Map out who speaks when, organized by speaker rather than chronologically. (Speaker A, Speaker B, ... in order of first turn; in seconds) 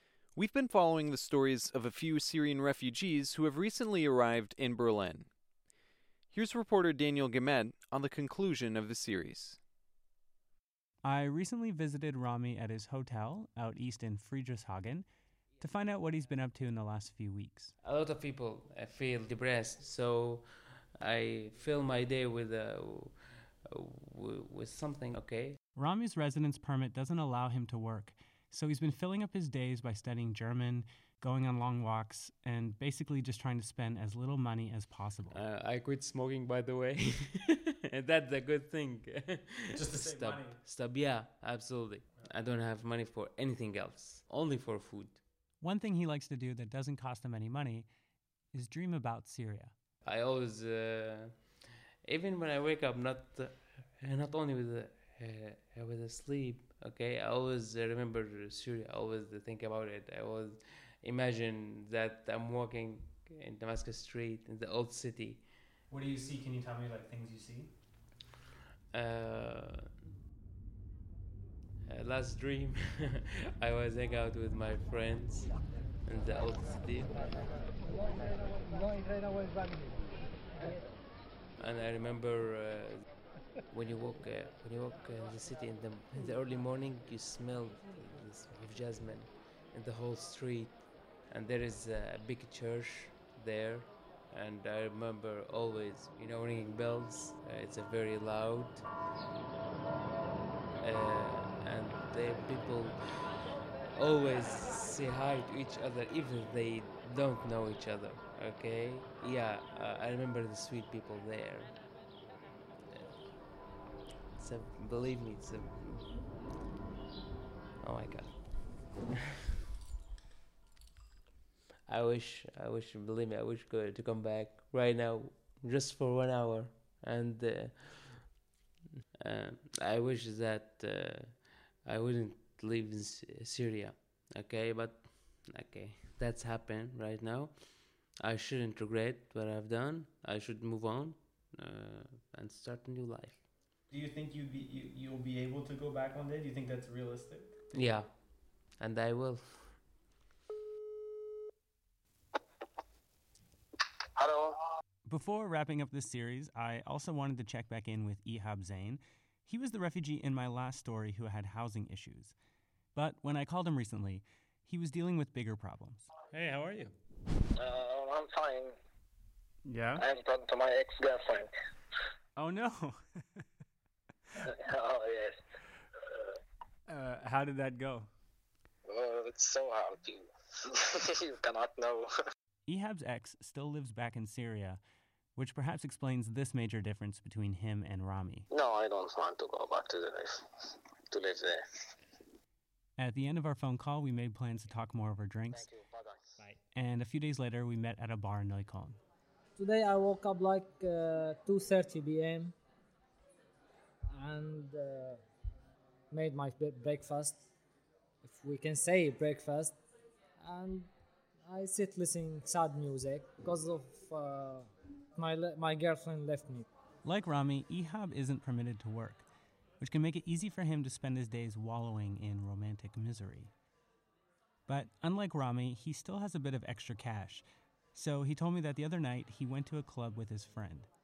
Speaker A: 0.3-5.3, 6.3-9.6
Speaker B: 11.0-15.1, 15.6-17.7, 25.8-35.4, 39.7-40.6, 45.6-47.9, 48.5-49.7, 65.9-67.7, 143.9-147.6, 155.1-162.3, 162.9-166.9, 169.7-170.1, 172.4-173.4, 176.9-178.1, 182.7-184.8, 185.4-188.5, 193.0-195.7, 196.4-199.0, 217.0-219.2, 219.8-223.5, 224.7-227.4, 227.9-230.9
Speaker C: 17.8-25.6, 35.3-45.2, 50.0-65.6, 68.9-69.9, 71.9-78.3, 81.6-83.1, 83.7-98.9, 100.8-112.0, 112.9-113.2, 114.3-116.2, 117.8-119.0, 121.9-128.5, 129.2-143.5, 147.7-149.9
Speaker D: 154.2-154.6, 167.6-168.8, 170.0-171.5, 174.4-175.4, 178.9-182.1, 188.5-191.9, 195.5-196.3
Speaker E: 199.6-202.5, 204.1-205.2, 206.1-207.4, 208.2-209.8, 210.4-210.9, 211.4-216.7